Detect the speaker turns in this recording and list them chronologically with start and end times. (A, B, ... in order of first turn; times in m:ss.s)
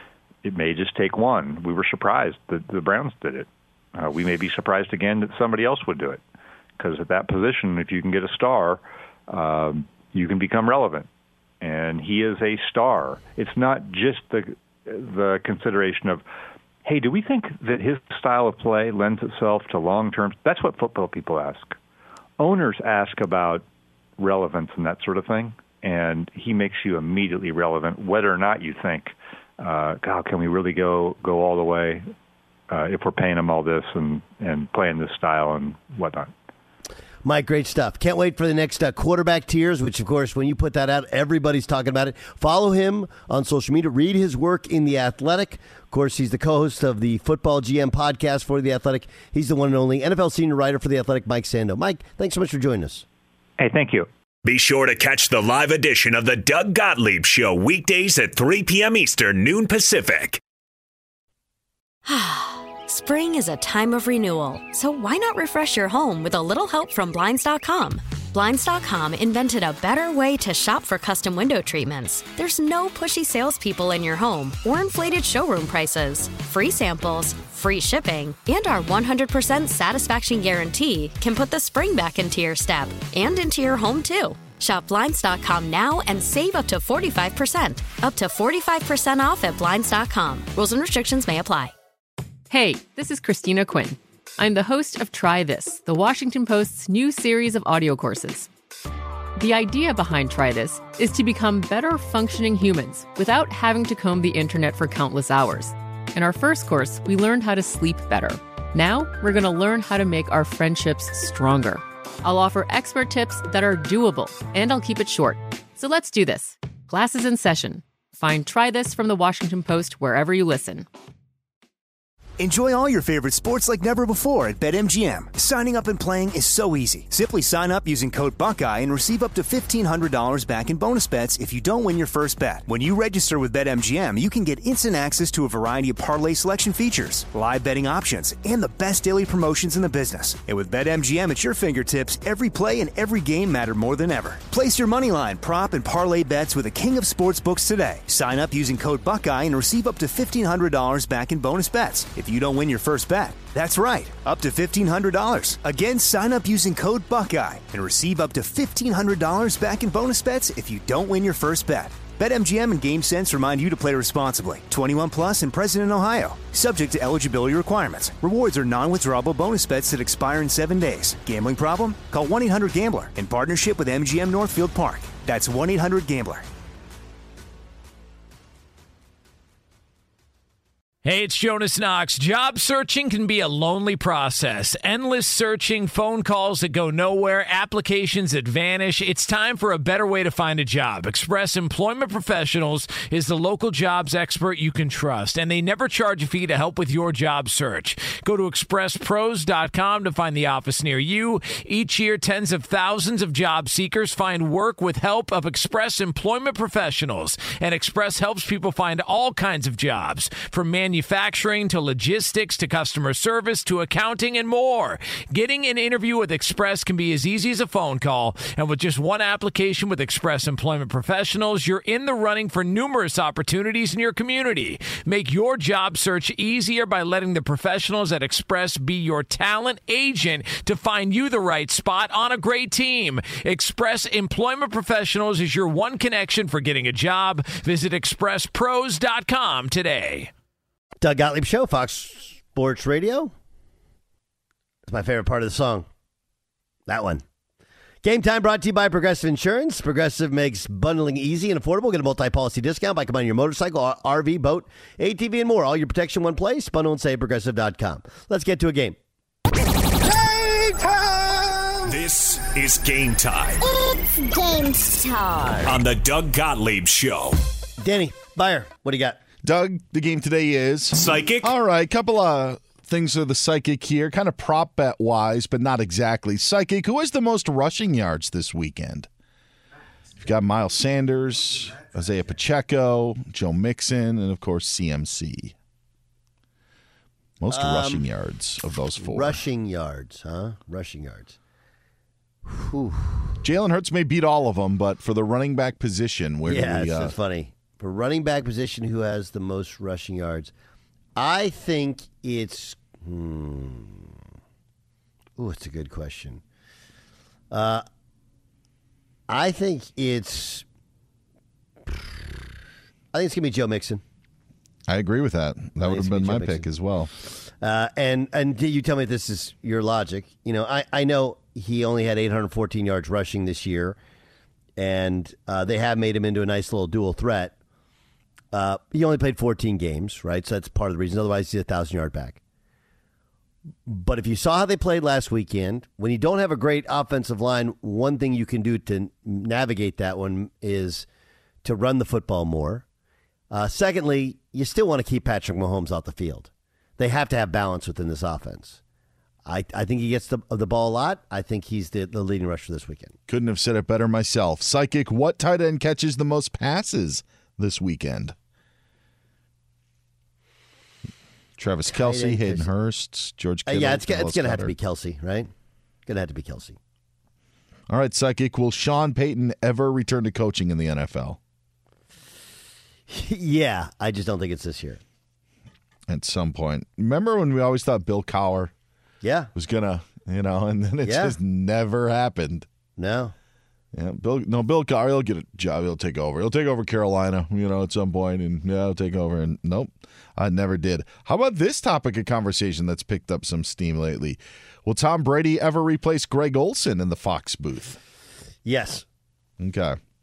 0:00.4-0:06.2 A
0:06.8-0:11.1 A
0:11.6-0:16.2 A
0:16.8-0:21.8 A
0:22.4-0:23.6 A
0:24.2-0:32.1 A
0:32.7-0:36.3 A
0:37.2-0:53.0 B
0:53.6-0:54.1 A
0:54.4-1:00.4 C
1:02.0-1:31.7 D
1:32.5-1:38.5 E
1:39.4-2:00.9 E
2:02.4-2:56.5 F
3:01.0-4:00.3 G
4:01.0-4:03.3 B
4:04.9-4:05.9 B
4:06.9-4:07.2 B
4:08.0-4:19.0 B
4:20.4-4:20.8 C
4:20.6-4:21.4 B
4:21.9-4:23.6 C
4:23.6-4:25.8 H
4:25.6-4:27.4 C
4:27.8-4:29.2 B
4:29.4-4:39.1 I
4:30.9-4:31.5 C
4:40.2-4:45.5 I
4:47.4-4:49.4 I
4:47.5-4:48.0 B
4:49.0-4:51.4 B
4:52.4-4:53.4 B
4:53.4-4:57.2 I
4:56.5-5:00.5 B
5:01.2-5:04.1 B
5:05.4-5:06.4 B
5:07.5-5:07.8 B
5:09.3-5:10.6 B
5:13.1-5:14.0 B
5:14.9-5:17.1 I
5:15.8-5:16.7 B
5:17.2-5:24.0 B
5:24.8-5:27.6 B
5:28.5-5:32.4 B
5:33.9-5:41.1 B
5:41.6-5:42.8 B
5:43.5-5:48.8 B
5:49.4-5:53.2 B
5:53.3-5:58.4 I
6:01.6-6:04.8 I
6:01.9-6:02.6 B
6:03.7-6:05.5 B
6:06.1-6:06.8 B
6:07.9-6:11.4 I
6:13.1-6:15.0 B
6:16.1-6:18.7 I
6:19.2-6:19.5 B
6:19.6-6:22.7 I
6:21.0-6:21.4 B
6:23.0-6:23.3 B
6:23.9-6:38.0 I
6:38.6-6:39.1 B
6:39.6-6:40.0 I